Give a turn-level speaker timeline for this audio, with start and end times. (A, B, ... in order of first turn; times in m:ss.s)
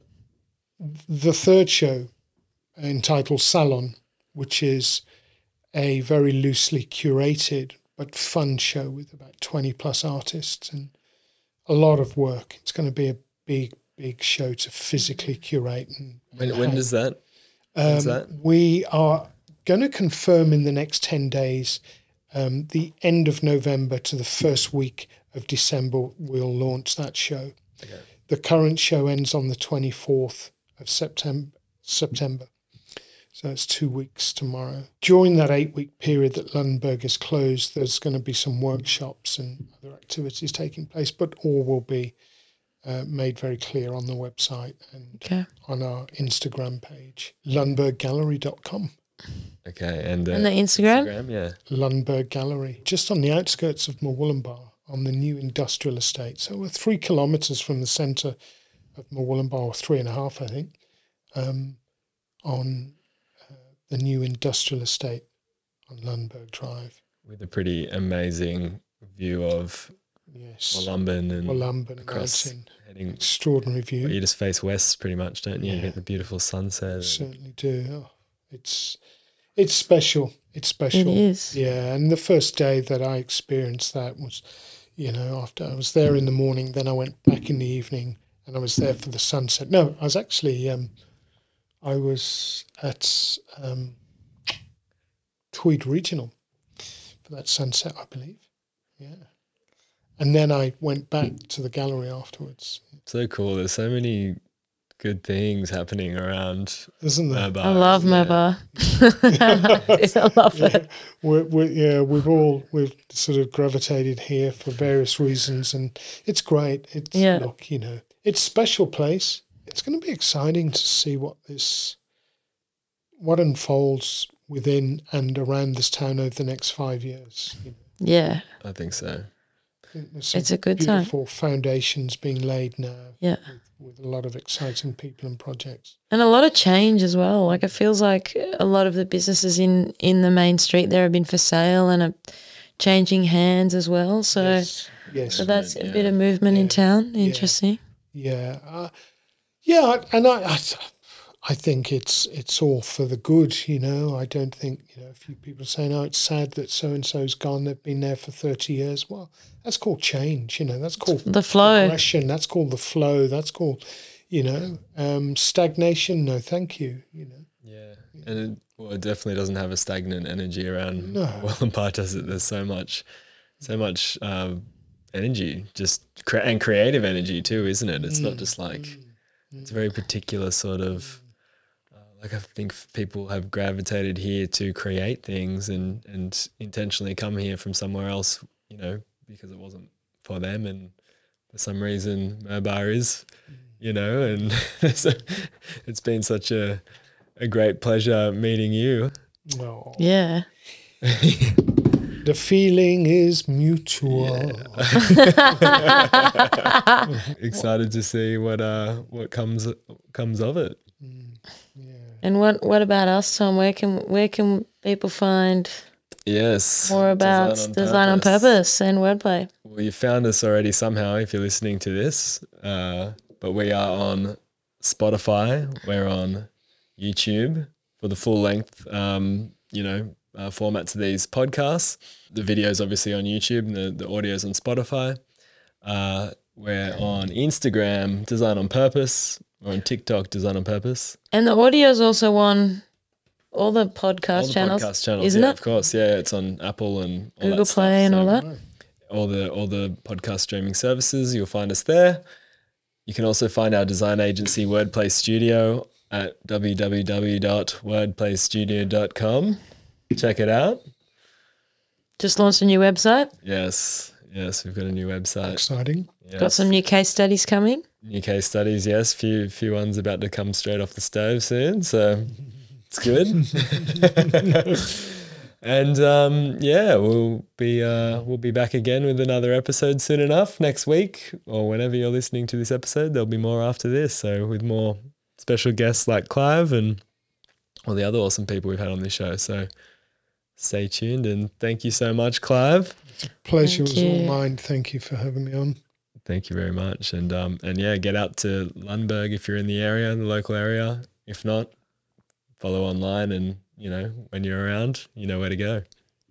0:00.8-0:02.1 A
0:02.8-0:05.0 A
0:05.7-0:10.9 A
0:11.7-0:16.9 A
0:16.4-0:17.2 B
0:17.7-0:21.8 A
0:17.8-0:18.3 B
0:22.3-0:27.6 A
0:28.2-0:32.5 A
0:33.3-0:42.2 A
0:42.8-0:48.9 A
0:45.2-0:45.5 C
0:49.6-0:51.6 B
0:50.3-0:51.1 C
0:51.7-0:58.4 A
0:58.9-1:00.7 A
1:01.3-1:01.8 A
1:02.4-1:03.0 A
1:03.5-1:05.3 A
1:05.9-1:07.0 A
1:07.2-1:10.0 B
1:10.3-1:14.2 A
1:10.7-1:13.2 B
1:14.0-1:17.2 B
1:15.6-1:16.0 A
1:17.0-1:19.0 A
1:19.6-1:30.9 A
1:20.9-1:21.6 C
1:31.8-1:34.0 A
1:35.5-1:36.4 A
1:37.2-1:38.5 A
1:39.0-1:39.3 A
1:40.2-1:42.9 A
1:43.0-1:44.4 B
1:45.0-1:48.4 B
1:47.0-1:48.1 A
1:47.6-1:50.8 C
1:49.3-2:02.0 A
1:57.1-1:57.5 C
2:03.2-2:07.8 A
2:08.0-2:08.4 C
2:08.6-2:09.3 B
2:09.9-2:16.0 A
2:10.3-2:11.1 C
2:16.1-2:24.7 C
2:24.4-2:25.5 A
2:25.2-2:26.2 B
2:25.3-2:27.8 C
2:26.5-2:27.6 A
2:28.1-2:28.9 A
2:29.6-2:47.5 A
2:41.1-2:42.0 C
2:47.6-2:53.0 B
2:51.0-2:51.5 A
2:53.6-2:59.0 B
2:58.1-2:59.7 A
2:59.6-3:01.2 B
3:02.0-3:10.9 B
3:11.5-3:13.3 B
3:13.8-3:16.8 B
3:17.4-3:19.1 B
3:19.5-3:20.0 A
3:20.0-3:20.5 C
3:21.0-3:21.6 B
3:22.2-3:25.8 A
3:24.0-3:26.7 B
3:25.2-3:27.1 C
3:27.0-3:27.6 A
3:27.3-3:30.8 B
3:31.0-3:32.2 A
3:32.2-3:35.8 C
3:36.2-3:38.5 B
3:36.8-3:39.5 C
3:39.6-3:55.2 B
3:55.8-4:01.2 B
4:01.3-4:02.8 C
4:03.5-4:05.6 C
4:04.3-4:08.4 B
4:07.4-4:08.4 C
4:09.1-4:12.2 B
4:13.0-4:19.6 B
4:20.1-4:20.8 B
4:22.2-4:23.3 C
4:23.4-4:25.6 B
4:25.4-4:26.1 A
4:26.2-4:26.7 B
4:26.4-4:27.8 C
4:28.0-4:32.4 B
4:32.9-4:47.0 B
4:33.7-4:34.7 A
4:47.8-4:49.7 B
4:50.6-4:53.0 B
4:53.1-4:55.8 A
4:53.6-4:54.4 C
4:56.2-5:01.7 B
5:02.6-5:05.8 B